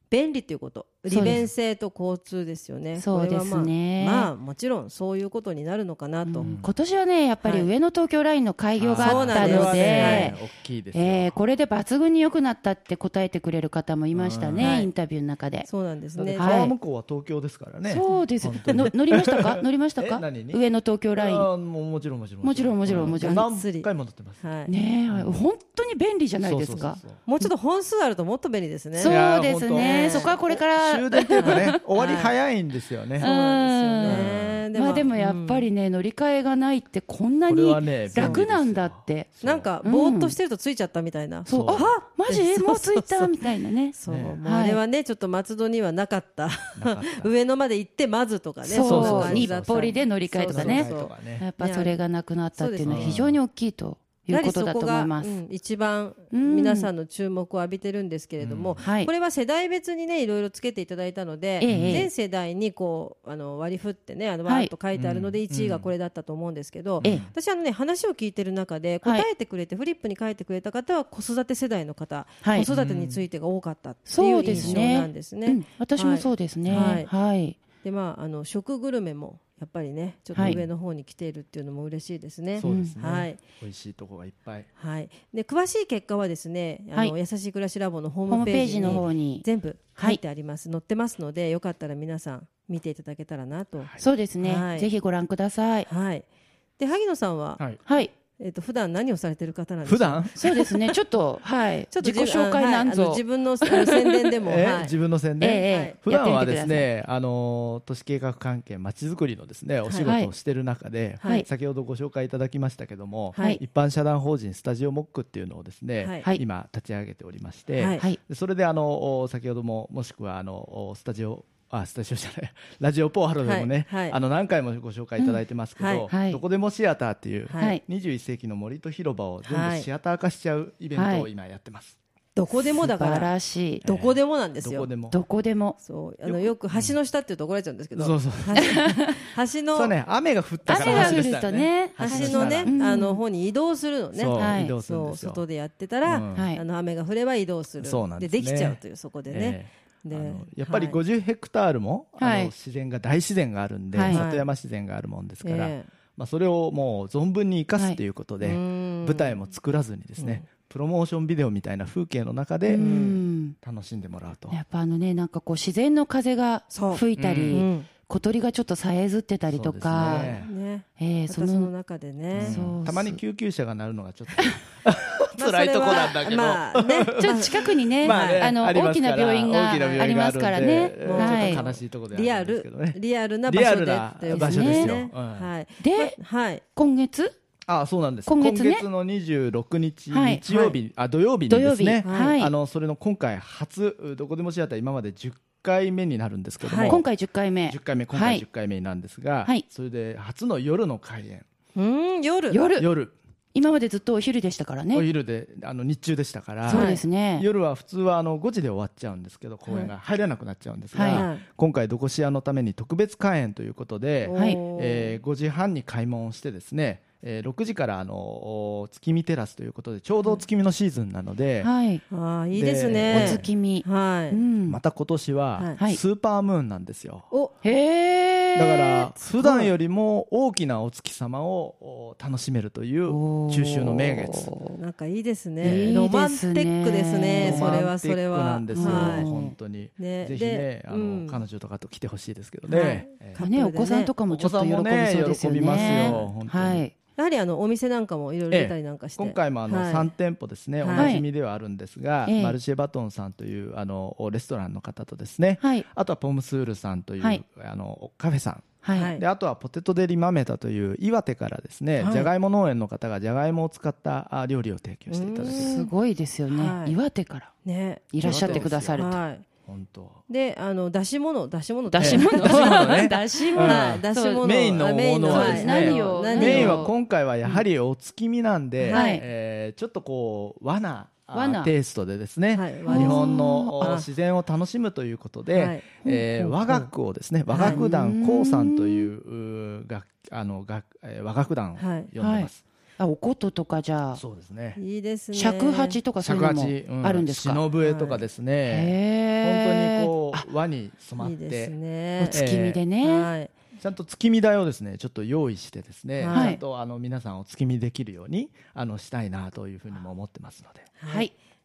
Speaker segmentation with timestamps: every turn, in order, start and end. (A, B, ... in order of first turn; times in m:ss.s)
0:00.1-0:06.5 A
0:01.1-0:01.5 B
0:03.0-0:04.3 B
0:06.2-0:10.4 B
0:06.4-0:06.8 C
0:07.4-0:07.7 A
0:08.8-0:11.4 C
0:09.0-0:10.4 A
0:10.9-0:15.7 B
0:14.1-0:14.8 C
0:14.6-0:14.9 A
0:15.7-0:16.7 A
0:16.2-0:24.4 C
0:16.4-0:16.8 B
0:17.8-0:21.5 B
0:22.4-0:23.5 B
0:22.9-0:23.9 A
0:24.4-0:24.7 A
0:24.7-0:27.5 B
0:25.1-0:25.4 C
0:26.4-0:27.2 C
0:27.3-0:29.2 A
0:29.0-0:31.8 B
0:29.0-0:33.3 C
0:29.8-0:30.6 A
0:31.4-0:32.3 A
0:33.2-0:35.7 A
0:33.2-0:39.3 B
0:34.0-0:34.7 C
0:37.5-0:39.7 C
0:38.2-0:38.4 A
0:39.4-0:43.3 A
0:39.8-0:40.4 B
0:41.5-0:44.8 B
0:41.5-0:41.9 C
0:43.9-0:52.0 A
0:44.1-0:44.4 C
0:46.8-0:47.3 C
0:48.6-0:55.4 B
0:48.8-0:49.9 C
0:50.5-0:51.5 C
0:52.6-0:53.2 A
0:52.8-0:53.4 C
0:54.3-1:17.1 A
0:56.3-0:56.9 B
0:58.4-0:58.8 C
0:58.8-0:59.1 B
1:01.6-1:02.1 B
1:01.7-1:02.1 C
1:04.4-1:04.7 B
1:04.9-1:05.9 C
1:07.0-1:07.3 C
1:12.4-1:12.7 B
1:12.7-1:13.2 C
1:14.1-1:17.6 B
1:14.4-1:14.8 C
1:16.6-1:17.0 C
1:17.8-1:23.4 A
1:20.4-1:20.6 B
1:20.4-1:20.6 C
1:22.5-1:24.7 C
1:22.6-1:23.0 B
1:24.8-1:34.9 A
1:28.3-1:29.4 B
1:33.8-1:34.0 C
1:34.0-1:35.9 B
1:35.9-1:36.3 A
1:36.8-1:37.6 A
1:37.9-1:38.1 B
1:38.4-1:40.8 A
1:39.8-1:40.4 C
1:40.4-1:44.1 B
1:41.9-1:44.9 A
1:44.5-2:12.0 C
1:45.4-1:46.9 B
1:45.7-1:46.0 A
1:50.0-1:50.3 B
1:53.4-1:53.6 A
1:56.0-1:56.3 A
1:57.7-1:58.1 A
2:03.4-2:04.2 A
2:05.8-2:06.1 A
2:06.1-2:06.4 B
2:07.5-2:07.8 A
2:09.5-2:09.9 A
2:11.0-2:11.3 B
2:12.4-2:13.3 A
2:12.8-2:13.8 B
2:13.8-2:14.9 A
2:13.8-2:15.2 C
2:15.1-2:15.8 B
2:15.8-2:19.9 A
2:16.2-2:16.9 C
2:18.0-2:18.9 C
2:18.6-2:19.1 B
2:19.8-2:22.8 C
2:20.7-2:23.2 B
2:20.7-2:21.2 A
2:22.0-2:31.0 A
2:24.2-2:25.4 C
2:24.4-2:24.7 B
2:26.0-2:26.5 C
2:26.4-2:26.6 B
2:27.8-2:43.1 C
2:32.2-2:32.5 B
2:33.9-2:34.2 B
2:34.1-2:34.5 A
2:35.4-2:35.9 A
2:38.4-2:39.4 A
2:40.2-2:40.4 A
2:42.7-2:43.6 B
2:42.8-2:43.2 A
2:43.6-2:44.6 C
2:44.5-2:51.7 B
2:46.7-2:47.9 A
2:47.2-2:47.6 C
2:49.5-2:50.5 C
2:50.0-2:52.6 A
2:52.4-3:05.5 C
2:52.4-2:53.2 B
2:55.4-2:58.5 A
2:57.2-3:01.6 B
3:01.0-3:06.6 A
3:04.3-3:05.0 B
3:05.8-3:06.2 B
3:06.8-3:07.4 B
3:07.7-3:17.0 C
3:08.3-3:08.8 B
3:10.1-3:10.7 B
3:11.5-3:12.5 B
3:12.0-3:12.4 A
3:16.6-3:17.0 A
3:16.8-3:18.4 B
3:17.7-3:21.4 C
3:21.8-3:22.6 A
3:22.5-3:22.9 B
3:22.8-3:23.1 C
3:23.5-3:25.0 B
3:24.9-3:41.7 C
3:26.7-3:27.5 B
3:26.7-3:27.0 A
3:30.9-3:31.3 B
3:31.1-3:31.4 A
3:34.2-3:35.2 A
3:34.3-3:34.6 B
3:41.6-3:42.0 B
3:42.1-3:44.4 A
3:42.5-3:43.5 C
3:43.1-3:44.8 B
3:44.6-3:47.3 C
3:47.6-3:49.1 B
3:48.6-3:54.5 C
3:49.4-3:49.7 A
3:53.1-3:54.8 B
3:54.7-3:59.3 A
3:55.6-3:56.1 C
3:55.6-3:57.9 B
3:57.4-4:03.4 C
3:58.7-3:59.6 B
4:00.0-4:01.4 A
4:02.7-4:04.1 A
4:03.4-4:07.0 B
4:04.3-4:06.8 C
4:05.7-4:06.3 A
4:07.2-4:10.1 A
4:08.5-4:25.7 C
4:10.8-4:11.2 A
4:10.9-4:11.2 B
4:12.3-4:12.6 B
4:15.6-4:15.9 B
4:18.8-4:19.2 B
4:18.9-4:19.2 A
4:22.0-4:22.3 A
4:25.1-4:25.9 A
4:25.5-4:27.5 B
4:26.5-4:27.0 A
4:27.6-4:29.4 A
4:28.1-4:29.2 B
4:28.2-4:29.0 C
4:29.7-4:30.2 C
4:30.3-4:36.9 A
4:31.9-4:34.5 B
4:32.0-4:52.6 C
4:35.3-4:36.9 B
4:38.8-4:39.2 A
4:38.9-4:39.2 B
4:41.3-4:41.7 B
4:42.5-4:44.1 A
4:42.9-4:43.9 B
4:45.5-4:46.9 A
4:46.0-4:46.6 B
4:47.5-4:47.8 A
4:47.6-4:49.1 B
4:51.8-4:52.1 A
4:52.2-4:54.2 B
4:54.2-4:54.8 C
4:54.8-4:56.0 A
4:55.3-4:57.6 B
4:56.2-5:01.8 C
4:57.8-4:58.3 A
4:58.7-5:00.4 B
5:01.2-5:02.4 A
5:02.2-5:03.3 B
5:02.3-5:02.8 C
5:03.0-5:03.5 A
5:03.8-5:10.9 C
5:06.2-5:06.6 A
5:06.3-5:06.6 B
5:11.0-5:11.3 A
5:11.1-5:11.3 B